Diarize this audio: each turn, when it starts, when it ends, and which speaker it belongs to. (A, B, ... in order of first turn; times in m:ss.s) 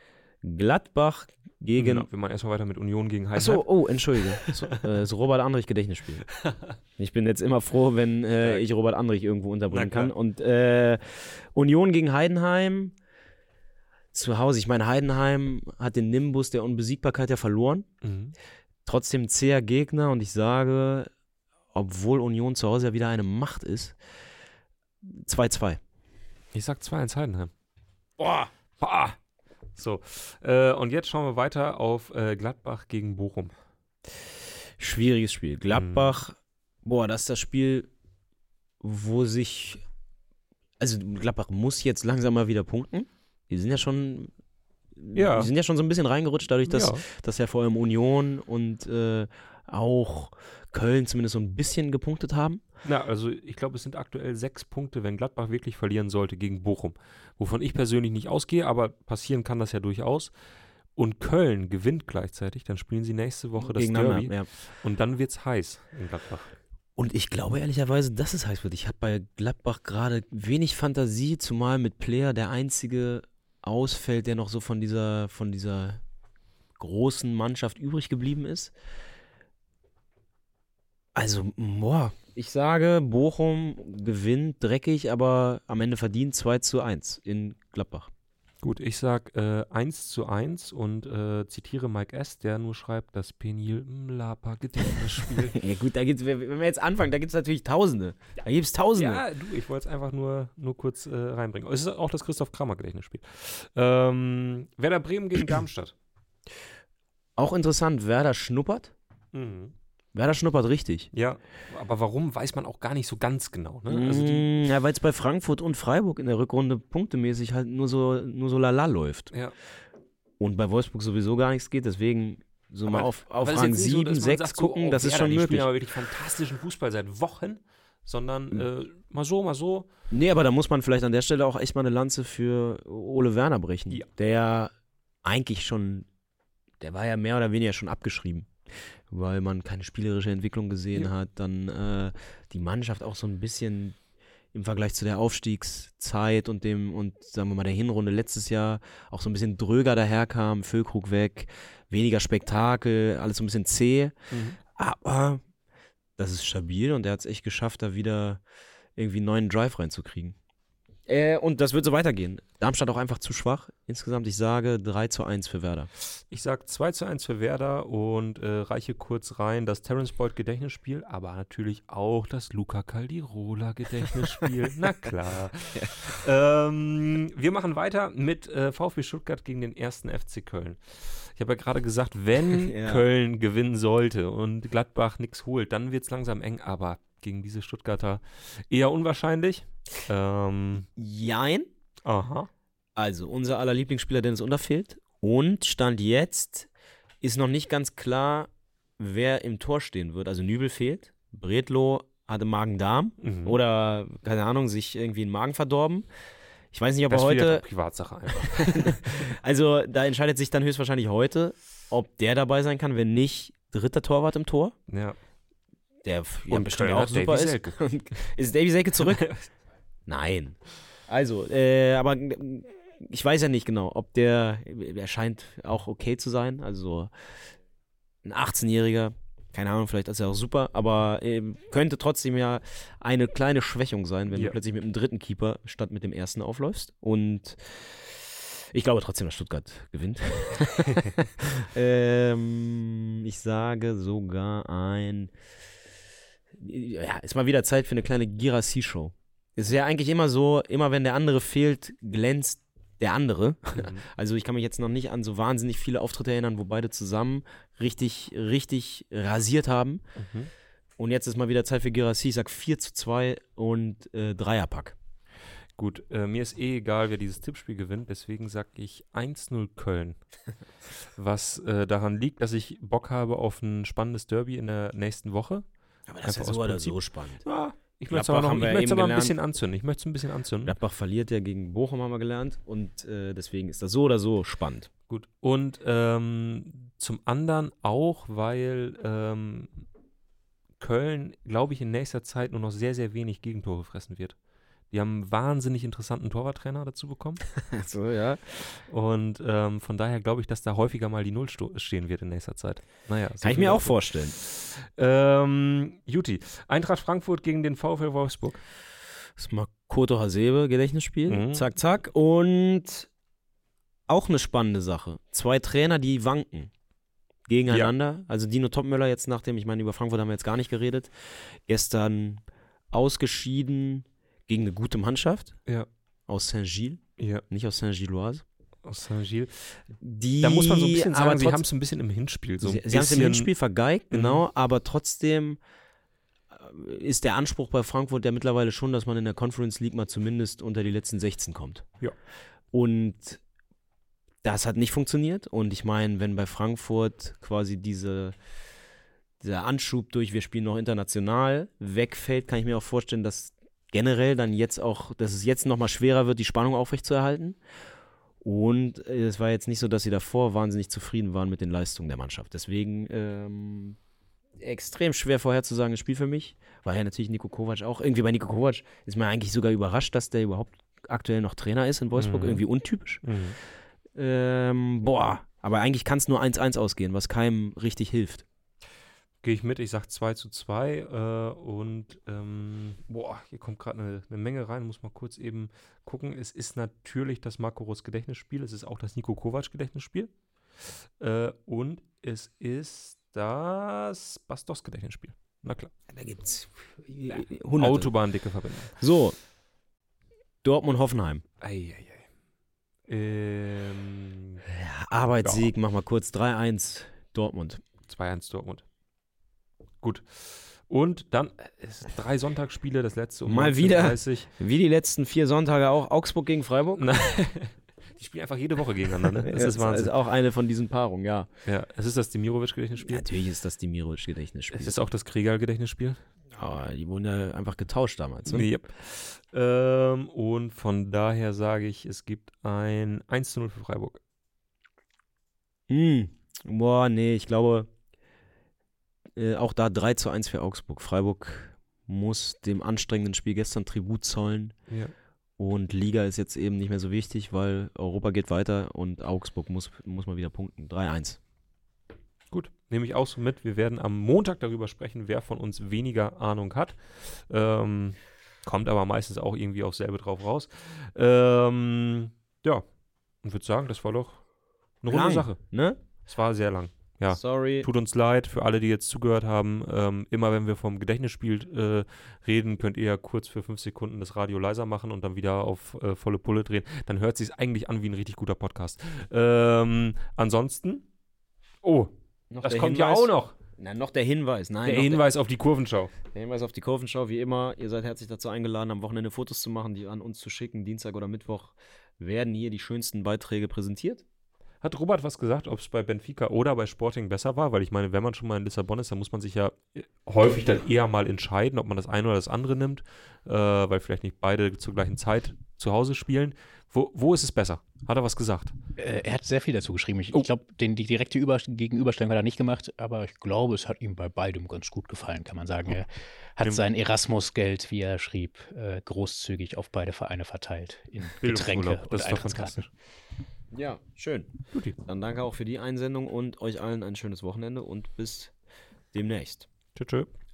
0:00.4-0:02.1 A
0:01.8-0:03.7 B
0:03.4-0:06.3 A
0:04.4-0:04.8 B
0:06.4-0:06.8 B
0:07.0-0:13.0 A
0:09.7-0:10.1 B
0:14.1-0:17.9 A
0:18.0-0:18.4 B
0:18.9-0:21.1 A
0:21.7-0:24.0 A
0:25.0-0:25.8 A
0:26.5-0:27.5 B
0:28.2-0:28.5 A
0:28.8-0:29.2 B
0:29.8-0:33.5 B
0:34.8-0:37.9 A
0:35.8-0:36.2 B
0:38.8-0:39.8 A
0:40.8-0:44.3 A
0:45.0-0:52.6 A
0:45.2-0:45.5 B
0:46.7-0:47.0 B
0:52.8-1:00.3 B
1:01.0-1:06.5 B
1:03.6-1:04.5 A
1:07.0-1:16.0 A
1:16.8-1:18.7 A
1:21.2-1:28.1 A
1:28.6-1:35.6 B
1:35.5-1:39.2 A
1:39.0-1:45.9 B
1:47.4-1:48.9 A
1:49.3-1:49.7 B
1:50.2-1:51.1 A
1:51.1-1:54.4 B
1:53.9-1:59.3 A
2:00.4-2:05.7 A
2:02.9-2:09.9 B
2:10.1-2:14.7 A
2:15.2-2:16.1 A
2:16.8-2:24.0 A
2:24.5-2:34.2 A
2:34.3-2:34.6 B
2:34.7-2:35.4 A
2:36.2-2:38.4 A
2:39.0-2:40.4 A
2:41.1-2:45.9 A
2:46.3-3:10.9 B
3:02.6-3:03.0 A
3:11.0-3:11.7 A
3:12.0-3:12.5 B
3:13.0-3:16.7 A
3:17.2-3:26.1 A
3:23.2-3:23.6 B
3:26.7-3:27.6 A
3:27.1-3:29.1 B
3:28.4-3:34.8 A
3:34.9-3:35.2 B
3:36.0-3:39.3 A
3:36.5-3:37.8 B
3:39.0-3:39.4 B
3:40.1-3:47.1 A
3:48.2-4:05.3 A
4:06.6-4:20.0 A
4:13.8-4:14.0 B
4:20.2-4:20.5 B
4:21.0-4:25.0 A
4:25.8-4:30.2 B
4:31.2-4:35.6 B
4:36.1-4:37.5 A
4:36.2-4:40.7 B
4:38.1-4:39.4 A
4:40.6-4:44.9 A
4:45.1-4:49.8 B
4:50.8-4:54.4 B
4:54.9-4:57.5 B
4:57.6-4:58.6 A
4:58.9-5:08.6 B
5:03.4-5:04.4 A
5:09.4-5:13.1 A
5:11.3-5:11.7 B
5:14.1-5:16.7 A
5:17.5-5:25.6 A
5:26.3-5:28.4 A
5:27.2-5:27.4 B
5:28.8-5:29.8 B
5:30.0-5:31.6 A
5:30.4-5:33.5 B
5:32.6-5:35.6 A
5:34.1-5:34.4 B
5:36.5-5:41.9 A
5:42.7-5:43.4 A
5:44.4-5:48.4 A
5:49.4-5:57.6 A
5:58.4-6:04.0 A
6:04.6-6:13.2 A
6:12.2-6:12.6 B
6:13.2-6:13.6 B
6:14.2-6:18.5 A
6:19.4-6:30.3 B
6:31.2-6:35.9 B
6:36.1-6:38.1 A
6:37.3-6:39.0 B
6:39.0-6:39.4 A
6:40.6-6:41.4 A
6:41.6-6:42.2 B
6:43.1-6:44.6 B
6:44.7-6:47.8 A
6:45.4-6:45.7 B
6:48.1-6:48.8 B
6:50.0-6:54.5 B
6:53.5-6:57.2 A
6:57.0-7:00.1 B
6:59.4-7:01.5 A
7:01.7-7:03.2 B
7:03.0-7:05.0 A
7:04.7-7:06.2 B
7:06.6-7:08.7 A
7:08.5-7:14.2 B
7:15.9-7:17.9 A
7:19.4-7:24.8 A
7:25.6-7:31.4 A
7:32.5-7:42.8 B
7:43.4-7:44.4 B
7:45.0-7:45.6 B
7:45.1-7:46.0 A
7:46.2-8:01.0 B
7:47.3-7:47.9 A
8:01.8-8:02.1 B
8:02.5-8:05.2 A
8:02.6-8:03.5 B
8:04.8-8:06.1 B
8:06.3-8:14.2 A
8:14.8-8:28.7 B
8:29.0-8:42.8 C
8:41.4-8:42.9 B
8:43.7-8:48.5 A
8:49.1-8:49.7 A
8:50.0-8:50.3 B